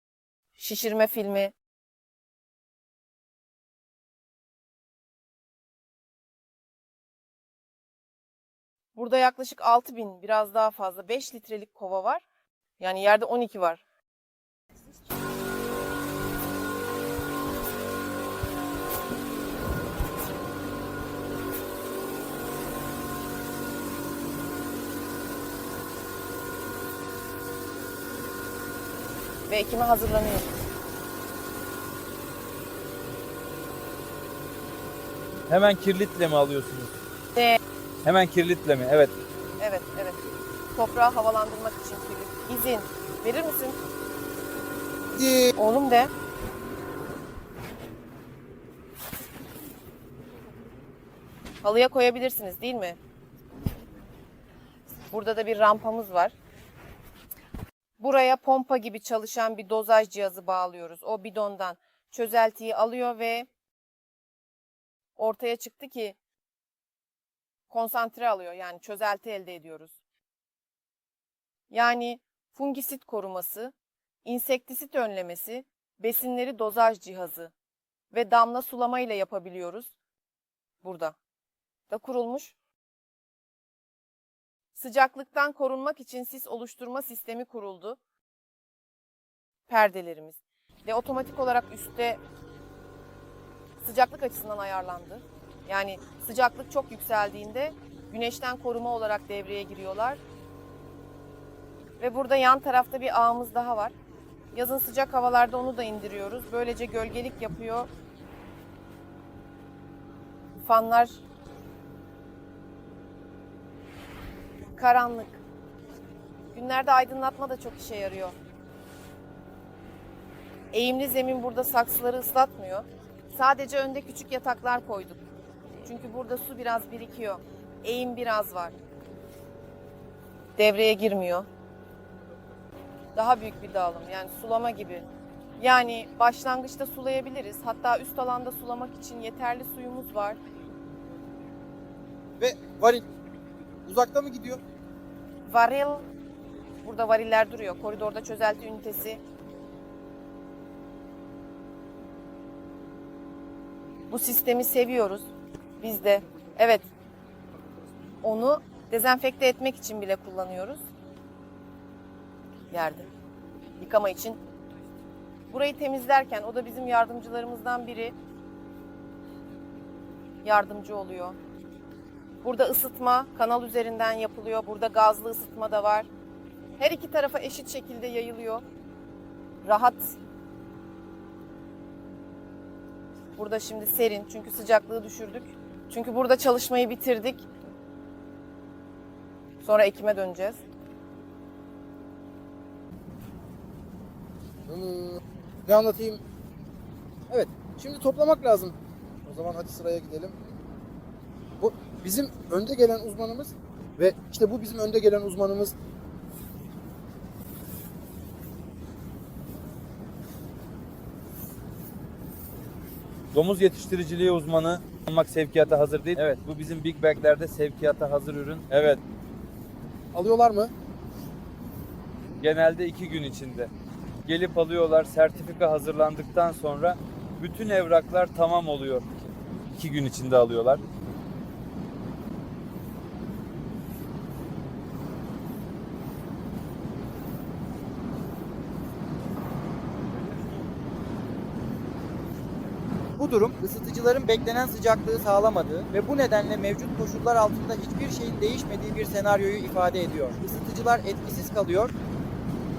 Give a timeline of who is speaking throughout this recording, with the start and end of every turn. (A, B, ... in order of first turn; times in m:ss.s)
0:00.6-0:01.5 A
0:08.9-0:12.2 A
0:12.8-0:13.8 A
0:29.5-0:30.6 A
0:35.5-0:36.9 B
0:38.0-0:39.1 B
0:39.6-0:40.2 A
0:40.7-0:43.8 A
0:45.5-0:46.1 A
0:51.6-0:53.0 A
0:55.1-0:56.4 A
0:58.0-1:03.5 A
1:05.2-1:06.2 A
1:07.7-1:10.0 A
1:11.7-1:13.7 A
1:14.2-1:17.5 A
1:18.1-1:19.9 A
1:20.8-1:21.2 A
1:21.9-1:22.5 A
1:24.7-1:28.0 A
1:29.7-1:32.2 A
1:33.8-1:40.2 A
1:42.0-1:43.9 A
1:44.5-1:47.9 A
1:50.6-1:51.2 A
1:54.7-1:55.4 A
1:56.5-1:58.4 A
2:00.7-2:05.2 A
2:05.8-2:08.7 A
2:10.6-2:11.5 A
2:13.1-2:15.0 A
2:15.6-2:20.4 A
2:22.4-2:23.1 C
2:23.8-2:24.6 C
2:25.4-2:26.1 A
2:26.8-2:29.2 A
2:34.1-2:36.9 A
2:38.2-2:40.8 A
2:42.7-2:43.1 A
2:43.8-2:44.4 A
2:45.5-2:48.1 A
2:50.4-2:51.4 A
2:52.4-2:56.1 A
2:56.8-2:58.6 A
2:59.6-3:00.1 A
3:03.4-3:07.4 A
3:09.6-3:10.6 A
3:14.7-3:16.2 D
3:17.3-3:20.4 D
3:21.6-3:25.7 D
3:33.3-3:39.0 B
3:40.1-3:40.7 D
3:42.4-3:43.7 B
3:44.2-3:50.8 B
4:03.2-4:11.9 C